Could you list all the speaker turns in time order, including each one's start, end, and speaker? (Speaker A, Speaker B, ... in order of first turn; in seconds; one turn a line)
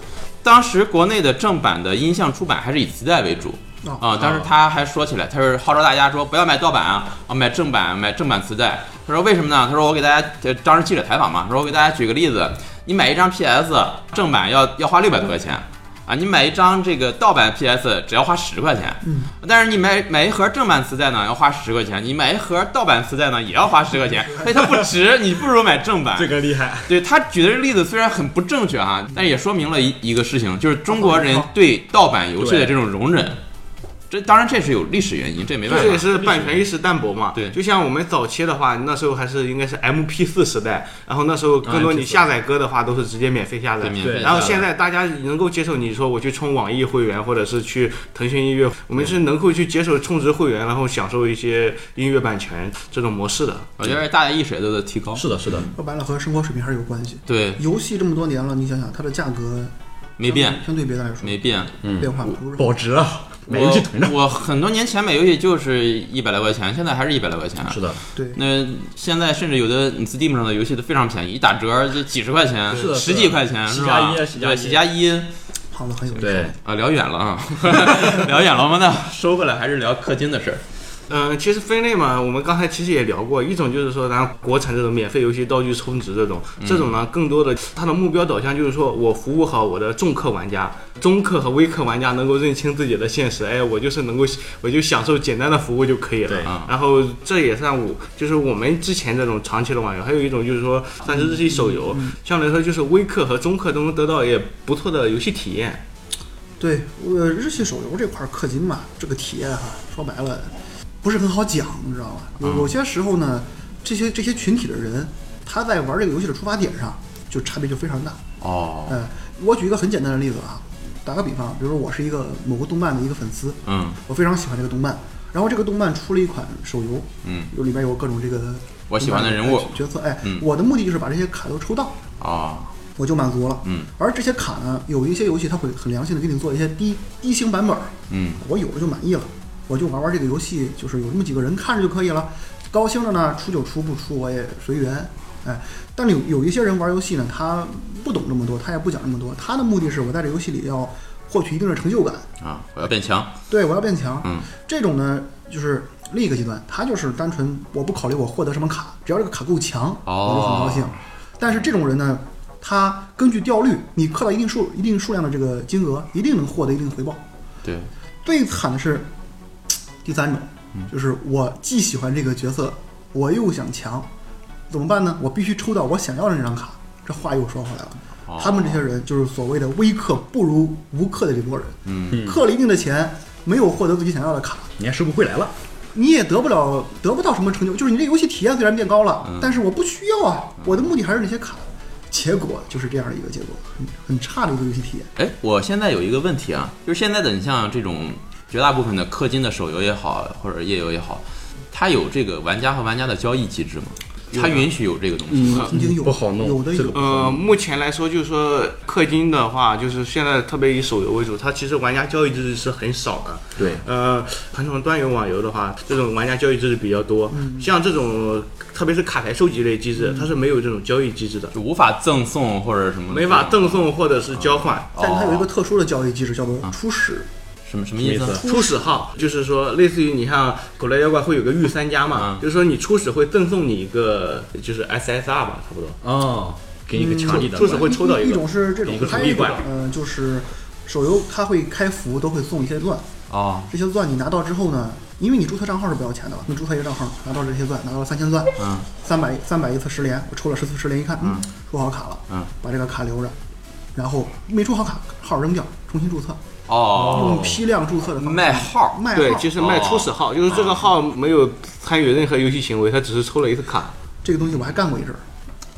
Speaker A: 0.4-33.4
Speaker B: 19.0-19.3
Speaker B: 24.1-24.7
Speaker C: 26.1-27.0
Speaker B: 30.9-31.5
Speaker C: 32.4-32.7
Speaker A: 34.1-36.4
Speaker D: 35.6-53.7
Speaker C: 35.7-36.3
Speaker C: 41.6-42.3
Speaker A: 43.8-44.7
Speaker C: 44.0-44.6
Speaker A: 53.8-55.7
Speaker C: 55.1-55.7
Speaker B: 55.7-59.7
Speaker A: 57.3-57.6
Speaker A: 60.2-60.6
Speaker B: 60.2-62.7
Speaker A: 61.2-62.4
Speaker C: 61.8-64.2
Speaker A: 63.5-75.3
Speaker C: 67.7-68.0
Speaker C: 72.7-74.8
Speaker B: 75.7-76.5
Speaker C: 76.2-76.5
Speaker A: 76.3-80.6
Speaker D: 81.1-105.8
Speaker A: 86.6-86.9
Speaker C: 96.3-96.5
Speaker A: 96.4-96.7
Speaker B: 101.1-102.1
Speaker B: 106.6-110.5
Speaker B: 111.0-118.2
Speaker A: 112.4-112.7
Speaker A: 118.4-119.0
Speaker B: 118.9-132.0
Speaker A: 123.7-124.0
Speaker A: 127.2-127.5
Speaker A: 128.9-130.5
Speaker A: 132.2-132.7
Speaker B: 132.9-152.3
Speaker A: 138.1-138.4
Speaker A: 152.4-153.3
Speaker B: 153.5-167.2
Speaker A: 160.1-160.9
Speaker A: 167.6-167.9
Speaker B: 168.2-169.1
Speaker B: 170.0-174.1
Speaker B: 174.7-184.7
Speaker A: 178.3-178.8
Speaker A: 181.8-182.2
Speaker C: 182.1-182.4
Speaker C: 184.8-185.5
Speaker B: 185.9-195.1
Speaker A: 189.2-189.6
Speaker A: 195.2-205.7
Speaker D: 204.3-204.6
Speaker C: 205.3-207.4
Speaker B: 205.7-207.0
Speaker D: 206.9-221.5
Speaker C: 213.6-213.8
Speaker B: 217.3-217.7
Speaker A: 221.5-225.5
Speaker D: 223.1-224.9
Speaker B: 225.0-227.3
Speaker A: 227.7-228.4
Speaker C: 228.0-228.5
Speaker D: 228.3-236.0
Speaker A: 232.1-232.4
Speaker C: 236.0-237.9
Speaker B: 236.9-243.1
Speaker D: 237.2-239.6
Speaker C: 238.8-239.6
Speaker A: 243.3-243.7
Speaker B: 243.7-253.3
Speaker A: 248.6-248.9
Speaker B: 253.9-256.4
Speaker A: 256.7-257.6
Speaker C: 256.9-257.6
Speaker B: 257.1-259.5
Speaker A: 258.1-259.0
Speaker D: 259.1-263.9
Speaker A: 259.6-260.9
Speaker B: 264.2-265.2